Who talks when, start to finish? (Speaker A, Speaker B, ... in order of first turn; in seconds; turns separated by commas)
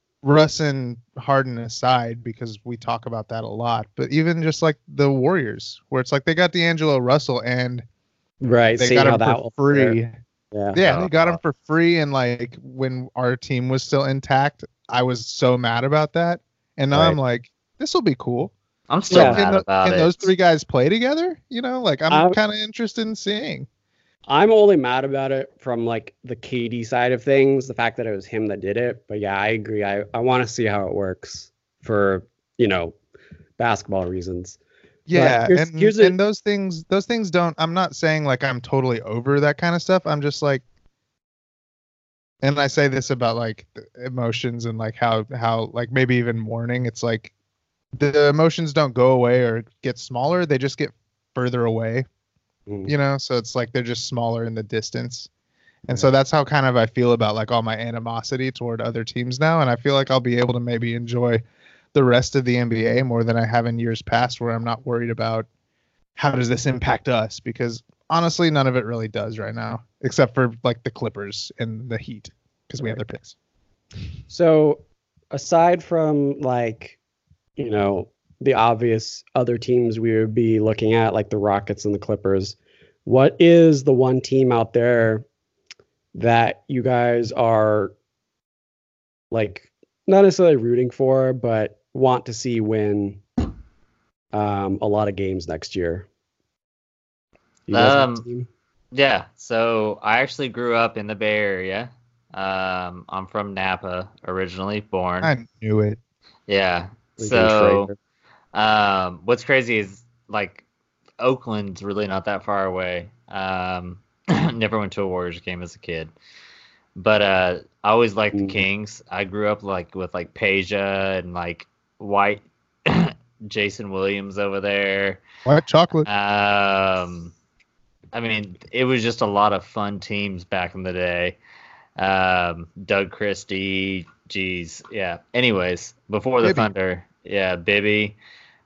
Speaker A: 0.2-7.8, Speaker B: 8.4-10.0, Speaker A: 8.8-10.2, Speaker B: 10.5-11.4, Speaker A: 10.7-18.5, Speaker B: 16.9-17.2, Speaker C: 18.9-20.3, Speaker A: 19.1-23.7, Speaker B: 19.1-19.4, Speaker B: 22.1-22.4, Speaker B: 24.3-33.0, Speaker B: 33.6-34.6, Speaker A: 35.1-40.6, Speaker B: 35.1-36.2, Speaker A: 42.4-47.3, Speaker A: 47.9-52.0, Speaker B: 52.7-52.9, Speaker A: 52.9-55.3, Speaker A: 55.9-61.4, Speaker A: 61.9-65.5, Speaker A: 66.2-73.3, Speaker B: 74.3-77.0, Speaker B: 77.6-85.2, Speaker B: 86.1-87.9, Speaker B: 89.3-93.2, Speaker B: 94.3-96.1, Speaker B: 97.7-98.5, Speaker C: 97.7-98.2, Speaker C: 98.9-105.3, Speaker A: 105.2-106.0, Speaker C: 106.5-107.9, Speaker B: 107.2-107.9, Speaker C: 108.5-110.6, Speaker C: 111.2-116.1, Speaker C: 116.9-125.2, Speaker B: 118.3-118.6, Speaker A: 125.4-126.1, Speaker C: 126.0-127.3, Speaker C: 128.1-131.4, Speaker C: 132.0-138.2, Speaker A: 136.4-136.7